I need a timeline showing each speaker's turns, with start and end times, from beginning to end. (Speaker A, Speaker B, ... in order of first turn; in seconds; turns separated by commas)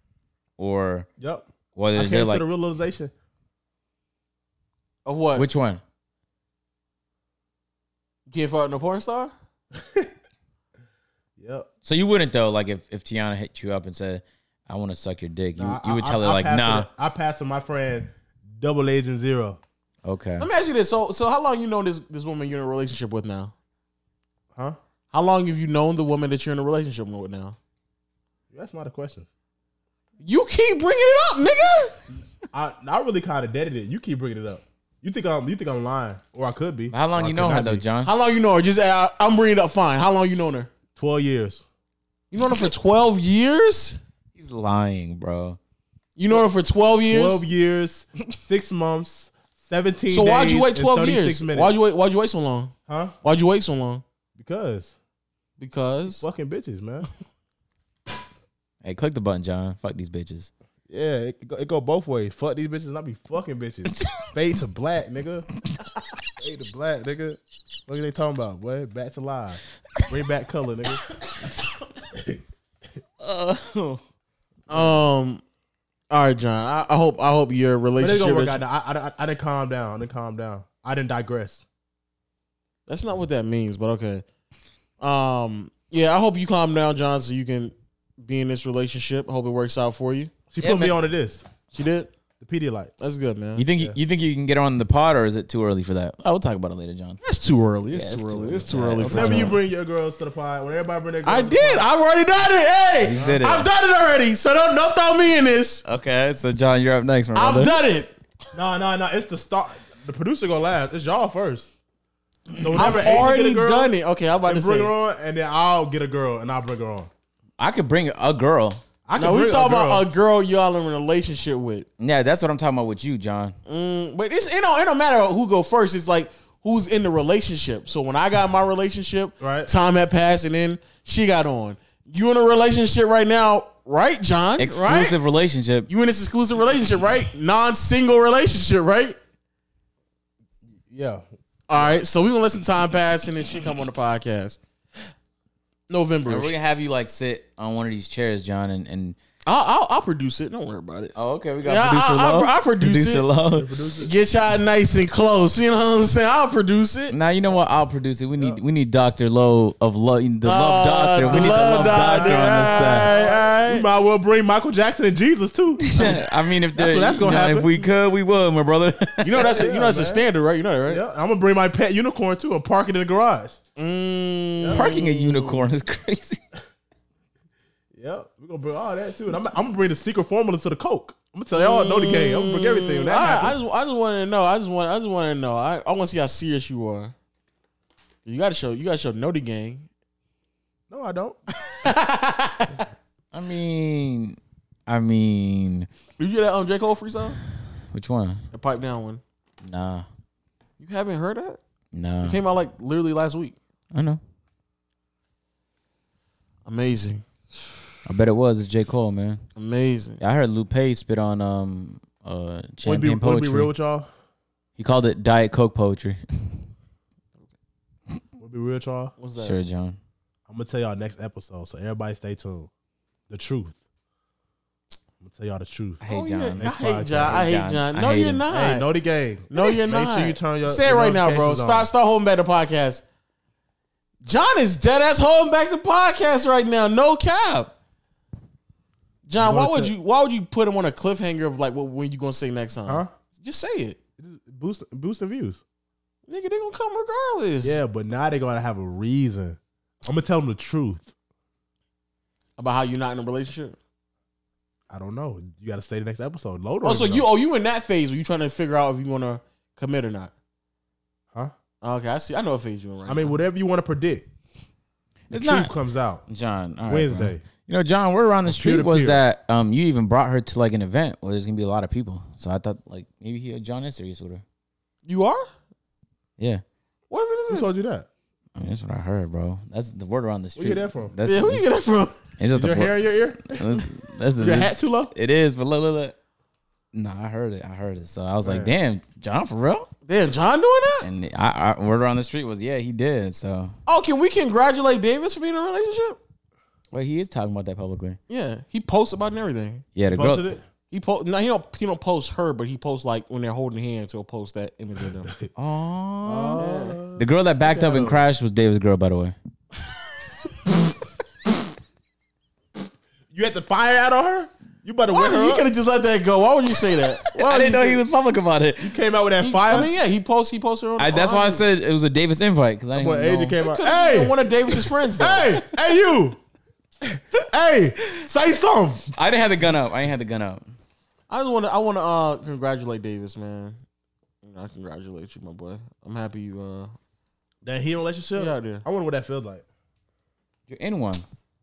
Speaker A: 0.6-1.1, Speaker B: 1.2-3.1, Speaker A: 1.7-2.4, Speaker C: 5.0-5.5, Speaker A: 5.3-5.8, Speaker C: 8.3-9.3, Speaker B: 9.7-10.1, Speaker B: 11.4-11.7, Speaker A: 11.8-16.9, Speaker B: 15.6-19.6, Speaker A: 20.0-20.5, Speaker C: 20.4-23.5, Speaker C: 25.1-27.6, Speaker B: 28.5-29.3, Speaker C: 30.2-31.9, Speaker B: 32.4-37.8, Speaker A: 36.9-38.1, Speaker C: 38.0-40.7, Speaker B: 41.0-41.6, Speaker C: 42.3-44.0, Speaker A: 44.4-45.6, Speaker C: 46.1-47.4, Speaker B: 47.0-51.8, Speaker C: 50.1-54.0, Speaker B: 52.9-53.1, Speaker B: 54.3-54.9, Speaker C: 55.6-56.2, Speaker B: 56.1-57.1, Speaker A: 58.8-60.5, Speaker B: 60.9-65.5, Speaker B: 66.4-71.0, Speaker B: 72.1-72.4, Speaker A: 73.2-74.0, Speaker C: 74.7-75.4, Speaker C: 76.1-78.6, Speaker B: 78.0-81.6, Speaker C: 82.9-84.2, Speaker C: 85.0-90.3, Speaker B: 90.5-91.4, Speaker A: 90.6-90.9, Speaker C: 91.7-92.1, Speaker B: 92.4-92.9, Speaker C: 93.0-93.6, Speaker A: 93.5-97.2, Speaker C: 97.2-99.6, Speaker A: 97.9-99.5, Speaker B: 99.0-101.9, Speaker C: 101.2-105.8, Speaker A: 103.0-103.7, Speaker A: 105.8-107.7, Speaker C: 107.3-108.1, Speaker B: 108.5-111.7, Speaker B: 112.6-113.9, Speaker C: 112.7-114.9, Speaker B: 114.4-117.1, Speaker A: 117.6-118.8, Speaker B: 119.1-120.0, Speaker C: 119.2-121.9, Speaker A: 122.0-123.5, Speaker C: 123.7-135.2, Speaker B: 129.4-129.7, Speaker A: 134.6-135.9, Speaker C: 135.9-139.2, Speaker B: 140.9-141.2, Speaker C: 141.7-144.6, Speaker C: 145.9-146.5, Speaker A: 146.3-149.2, Speaker C: 149.4-153.2, Speaker A: 151.1-153.7, Speaker B: 153.6-154.1, Speaker C: 154.0-157.1, Speaker A: 157.1-163.1, Speaker C: 160.4-163.8, Speaker B: 161.2-166.2, Speaker A: 165.8-169.5, Speaker B: 166.7-167.7, Speaker C: 169.2-171.0, Speaker B: 169.4-170.2, Speaker B: 170.9-173.6, Speaker C: 173.8-175.6, Speaker B: 174.6-174.9, Speaker A: 174.7-176.4, Speaker B: 177.9-183.6, Speaker C: 181.5-187.1, Speaker C: 188.2-189.8, Speaker B: 190.9-191.4, Speaker C: 191.6-192.8, Speaker A: 193.3-195.9, Speaker C: 196.2-197.4, Speaker A: 197.9-198.4, Speaker C: 198.5-199.2, Speaker A: 199.6-200.1, Speaker C: 200.8-201.6, Speaker A: 201.9-202.4, Speaker C: 202.2-203.6, Speaker A: 203.9-204.2, Speaker C: 206.7-207.7, Speaker A: 208.1-209.4, Speaker C: 209.6-210.2, Speaker A: 210.2-213.7, Speaker B: 212.8-214.1, Speaker A: 214.8-216.5, Speaker B: 218.4-219.1, Speaker C: 219.2-219.6, Speaker A: 219.4-220.0, Speaker B: 220.5-222.7, Speaker B: 223.3-223.8, Speaker B: 225.2-226.0, Speaker A: 226.0-228.4, Speaker C: 226.1-228.8, Speaker B: 226.6-227.4, Speaker B: 228.5-231.9, Speaker C: 229.5-233.0, Speaker C: 234.2-237.7, Speaker C: 239.3-244.0, Speaker B: 239.4-239.9, Speaker B: 242.8-243.1, Speaker B: 244.2-245.6, Speaker C: 246.3-247.8, Speaker B: 247.6-251.1, Speaker C: 252.6-253.8, Speaker B: 254.9-257.3, Speaker C: 256.8-260.3, Speaker C: 261.8-263.3, Speaker B: 263.1-264.2, Speaker A: 265.3-265.7, Speaker B: 265.3-266.2, Speaker A: 266.3-274.4, Speaker B: 266.9-267.4, Speaker B: 268.4-269.2, Speaker C: 275.1-275.5, Speaker C: 277.1-277.7, Speaker B: 277.5-278.1, Speaker A: 278.6-281.7, Speaker B: 280.6-281.1, Speaker C: 281.2-282.2, Speaker A: 282.4-286.1, Speaker B: 282.5-283.8, Speaker B: 284.4-285.1, Speaker A: 286.9-289.9, Speaker B: 288.4-288.7, Speaker C: 290.1-291.1, Speaker A: 291.0-293.7, Speaker C: 293.9-296.2, Speaker A: 296.9-298.2, Speaker C: 298.3-299.9, Speaker A: 299.9-300.4, Speaker B: 300.1-300.6, Speaker C: 300.9-305.3, Speaker A: 305.5-306.6, Speaker B: 306.2-308.2, Speaker C: 306.6-307.0, Speaker A: 307.1-309.3, Speaker B: 313.3-315.7, Speaker C: 315.1-318.0, Speaker A: 317.3-318.9, Speaker B: 318.8-319.9, Speaker C: 319.4-321.6, Speaker A: 321.0-323.6, Speaker B: 322.9-324.4, Speaker C: 323.6-325.6, Speaker B: 325.2-326.4, Speaker B: 327.0-329.1, Speaker A: 329.1-330.6, Speaker C: 331.3-333.8, Speaker C: 334.4-336.9, Speaker B: 337.6-339.6, Speaker C: 338.4-338.8, Speaker A: 340.7-341.2